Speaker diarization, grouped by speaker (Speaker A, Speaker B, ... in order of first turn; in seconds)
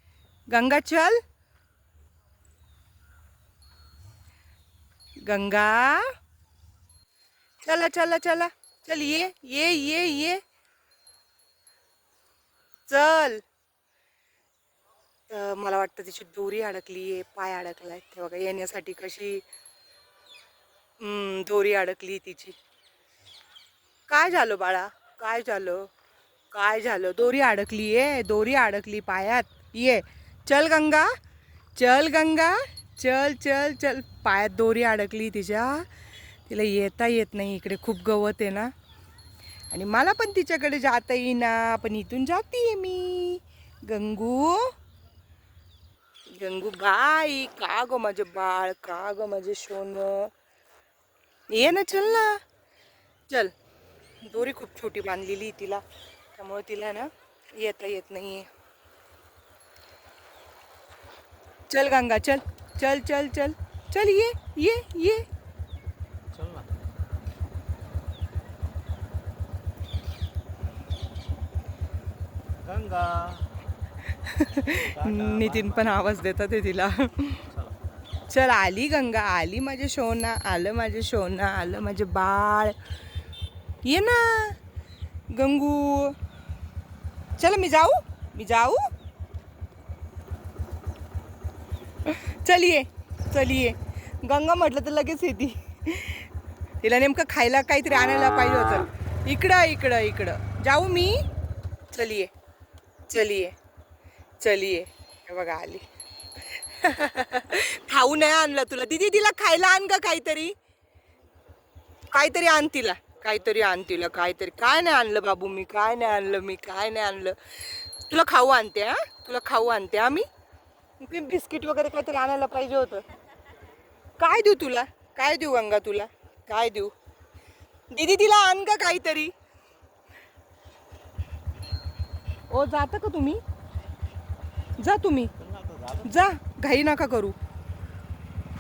Speaker A: 0.5-1.2, 5.3-6.1, 7.7-10.4, 12.9-13.4, 15.3-19.4, 21.0-22.6, 24.1-25.9, 26.5-31.1, 31.8-35.9, 36.5-38.7, 39.7-44.7, 46.3-50.3, 51.5-52.4, 54.2-55.8, 56.4-58.5, 61.7-65.3, 74.2-77.4, 78.3-82.8, 83.8-84.6, 85.3-86.2, 87.4-88.8, 92.0-96.3, 96.8-101.2, 101.9-102.3, 103.1-103.5, 104.4-105.8, 106.5-110.5, 112.1-120.3, 121.0-123.0, 124.2-126.9, 127.9-129.3, 132.5-133.4, 134.8-135.3, 136.1-137.3
Speaker B: 66.3-66.7, 72.6-73.5, 74.7-76.0, 77.5-77.8, 135.4-136.2